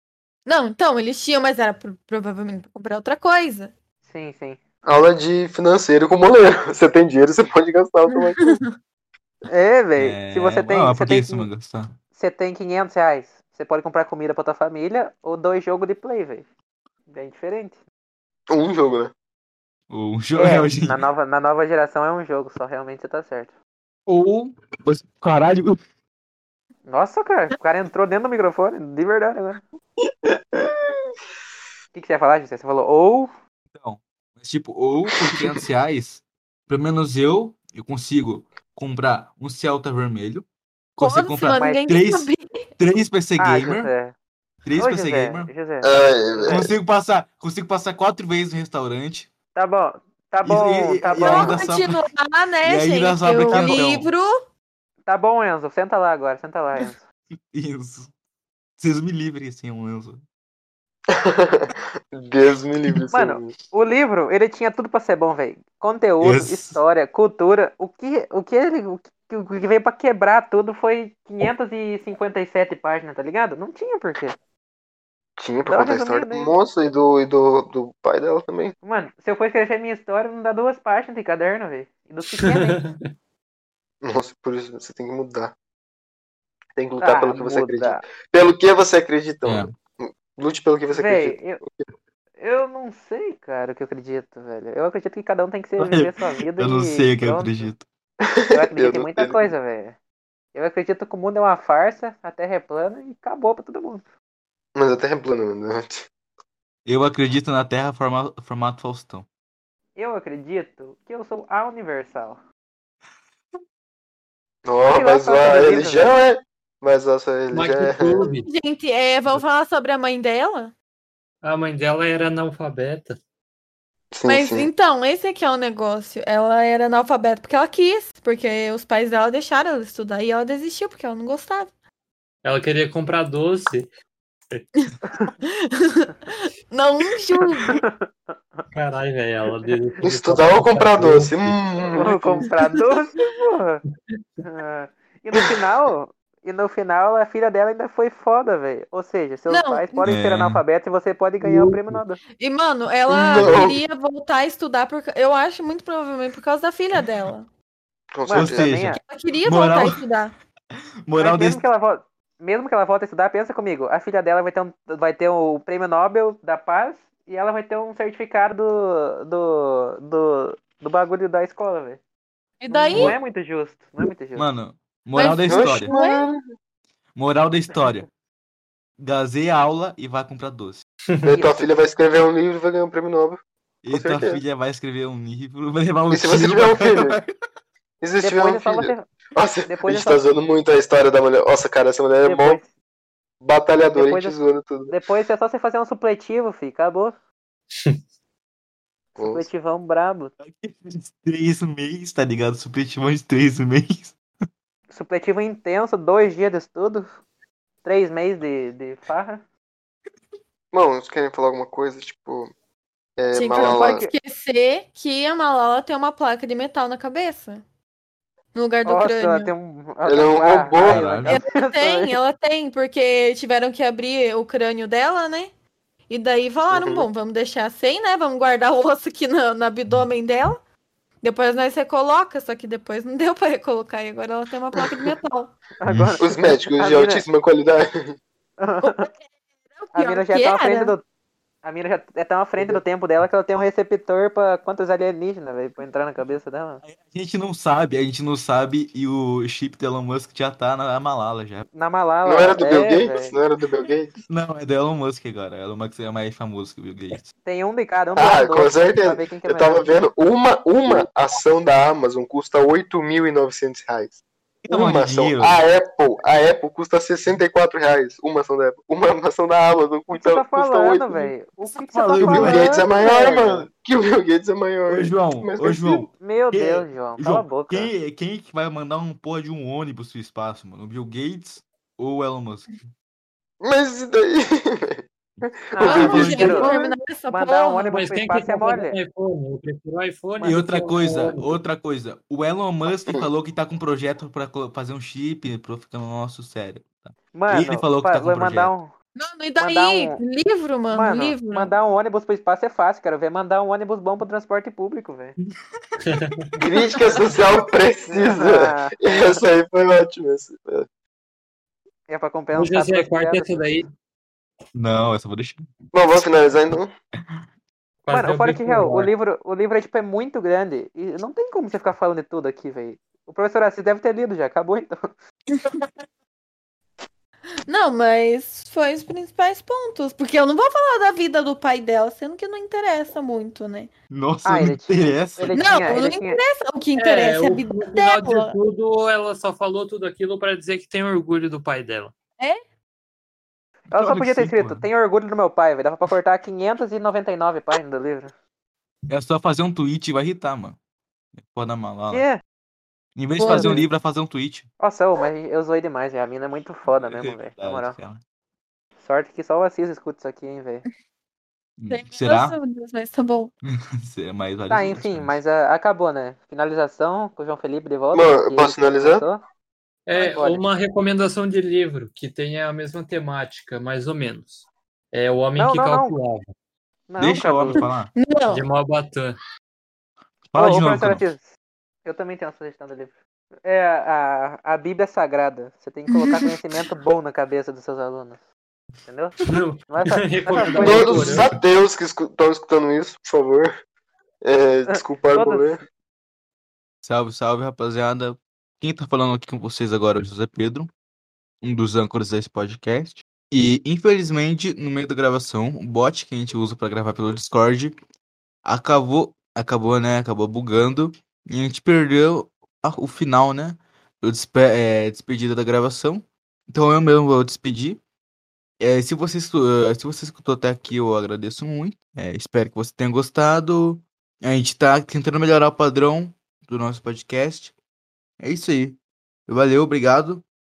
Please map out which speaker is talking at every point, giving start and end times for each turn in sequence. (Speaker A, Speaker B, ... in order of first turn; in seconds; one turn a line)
Speaker A: 0.5-3.7
Speaker B: 4.0-4.6
Speaker C: 4.8-8.6
Speaker A: 8.1-8.7
Speaker B: 9.5-11.5
Speaker D: 10.0-12.0
Speaker B: 12.1-16.5
Speaker B: 17.1-17.8
Speaker C: 18.5-19.1
Speaker D: 19.9-21.0
Speaker B: 20.3-23.6
Speaker D: 24.1-25.8
Speaker B: 26.9-29.6
Speaker C: 30.3-30.7
Speaker B: 31.9-33.3
Speaker D: 33.7-40.4
Speaker C: 35.1-35.6
Speaker D: 41.0-42.3
Speaker A: 41.0-42.7
Speaker B: 41.5-41.8
Speaker D: 42.8-43.9
Speaker B: 43.4-44.1
Speaker D: 44.6-45.5
Speaker B: 44.8-46.5
Speaker C: 45.8-46.7
Speaker D: 46.5-49.3
Speaker B: 49.5-51.6
Speaker D: 50.4-52.0
Speaker A: 51.2-54.3
Speaker D: 52.6-54.1
Speaker B: 53.5-53.9
Speaker B: 55.0-57.0
Speaker D: 57.5-58.1
Speaker D: 58.8-60.2
Speaker C: 61.1-63.5
Speaker B: 63.1-74.4
Speaker D: 66.2-66.8
Speaker C: 75.4-78.7
Speaker B: 75.7-76.5
Speaker B: 78.8-82.8
Speaker E: 82.3-83.1
Speaker C: 84.0-85.5
Speaker C: 86.8-91.7
Speaker B: 87.0-88.0
Speaker D: 89.4-89.7
Speaker B: 90.9-91.6
Speaker B: 92.4-97.7
Speaker D: 95.8-97.8
Speaker C: 98.2-99.5
Speaker B: 98.5-100.0
Speaker B: 100.5-104.0
Speaker C: 104.7-106.1
Speaker D: 106.8-109.2
Speaker B: 110.0-112.4
Speaker C: 114.6-118.3
Speaker B: 114.8-116.2
Speaker E: 117.5-118.5
Speaker A: 118.4-120.7
Speaker E: 121.4-123.2
Speaker C: 124.1-124.7
Speaker A: 124.2-131.7
Speaker E: 132.4-133.9
Speaker B: 135.1-135.3
Speaker A: 135.4-137.7
Speaker B: 137.7-138.3
Speaker E: 138.7-141.6
Speaker C: 140.0-142.4
Speaker B: 141.9-143.8
Speaker B: 144.4-152.2
Speaker A: 149.5-150.0
Speaker D: 150.0-150.6
Speaker E: 151.4-152.0
Speaker A: 152.3-157.5
Speaker C: 153.1-153.8
Speaker C: 158.1-158.6
Speaker B: 158.2-159.0
Speaker D: 158.3-160.0
Speaker A: 158.9-160.3
Speaker D: 161.1-161.6
Speaker B: 161.2-172.0
Speaker A: 172.6-173.2
Speaker B: 172.7-174.4
Speaker D: 174.3-175.9
Speaker A: 175.1-176.3
Speaker C: 175.5-176.4
Speaker D: 177.1-178.1
Speaker D: 179.0-180.8
Speaker C: 181.2-184.4
Speaker B: 181.3-181.7
Speaker D: 183.8-187.3
Speaker C: 186.1-187.2
Speaker C: 188.0-192.6
Speaker B: 188.2-189.1
Speaker B: 189.7-190.2
Speaker B: 192.2-192.7
Speaker C: 193.4-194.9
Speaker B: 193.9-197.1
Speaker B: 199.2-200.3
Speaker C: 199.2-199.5
Speaker D: 200.4-204.2
Speaker B: 204.9-207.2
Speaker B: 207.8-209.4
Speaker C: 210.7-212.5
Speaker C: 213.2-214.1
Speaker A: 213.3-217.6
Speaker A: 218.5-219.5
Speaker B: 218.8-222.2
Speaker C: 220.1-221.1
Speaker D: 220.8-221.3
Speaker A: 221.2-225.5
Speaker A: 226.1-230.6
Speaker C: 226.7-227.1
Speaker A: 231.2-235.5
Speaker C: 234.8-235.1
Speaker B: 235.8-237.2
Speaker D: 235.9-236.1
Speaker C: 236.2-238.2
Speaker B: 238.6-239.1
Speaker A: 238.8-239.2
Speaker A: 239.8-240.9
Speaker B: 239.9-241.0
Speaker B: 241.6-246.8
Speaker D: 246.8-251.7
Speaker B: 251.7-253.3
Speaker C: 252.2-254.1
Speaker D: 254.3-257.3
Speaker B: 257.4-260.0
Speaker C: 258.1-271.3
Speaker D: 264.6-265.6
Speaker B: 270.1-273.7
Speaker D: 271.7-272.8
Speaker C: 272.2-276.1
Speaker D: 274.9-282.9
Speaker B: 276.2-277.9
Speaker C: 283.6-285.1
Speaker C: 285.7-286.9
Speaker B: 285.7-286.7
Speaker A: 285.8-287.9
Speaker D: 285.9-286.5
Speaker B: 287.3-289.0
Speaker E: 287.9-291.6
Speaker D: 290.4-298.7
Speaker C: 292.9-293.2
Speaker B: 297.3-298.9
Speaker A: 299.1-301.7
Speaker B: 299.6-300.2
Speaker B: 300.9-305.4
Speaker E: 306.0-306.5
Speaker C: 306.6-310.9
Speaker B: 308.1-309.4
Speaker B: 312.1-313.5
Speaker E: 312.5-313.9
Speaker D: 314.7-315.7
Speaker C: 315.9-316.9
Speaker E: 318.0-319.1
Speaker B: 318.1-324.9
Speaker A: 325.5-325.8
Speaker A: 327.7-333.9
Speaker D: 334.1-335.6
Speaker B: 334.4-336.4
Speaker A: 335.5-338.6
Speaker E: 337.0-342.1
Speaker B: 343.9-348.3
Speaker D: 343.9-344.9
Speaker D: 349.1-350.8
Speaker D: 351.4-352.2
Speaker B: 352.1-352.4
Speaker D: 353.1-354.7
Speaker A: 353.4-353.8
Speaker B: 353.4-353.8
Speaker B: 354.8-358.0
Speaker D: 356.9-358.2
Speaker B: 359.0-360.8
Speaker D: 361.8-362.6
Speaker A: 361.9-363.5
Speaker D: 363.6-365.4
Speaker B: 364.7-369.4
Speaker C: 368.1-369.2
Speaker E: 370.1-376.5
Speaker B: 370.1-370.7
Speaker B: 375.6-376.1
Speaker B: 377.1-377.9
Speaker D: 377.2-378.1
Speaker A: 377.8-378.6
Speaker E: 378.5-379.4
Speaker D: 380.5-381.2
Speaker B: 380.6-381.5
Speaker B: 382.0-388.4
Speaker A: 386.1-386.5
Speaker B: 389.1-391.4
Speaker E: 389.4-391.5
Speaker C: 390.8-393.7
Speaker C: 394.4-395.8
Speaker B: 394.9-395.8
Speaker D: 397.0-400.9
Speaker D: 401.6-407.9
Speaker D: 408.6-418.0
Speaker D: 418.8-427.7
Speaker D: 428.4-430.4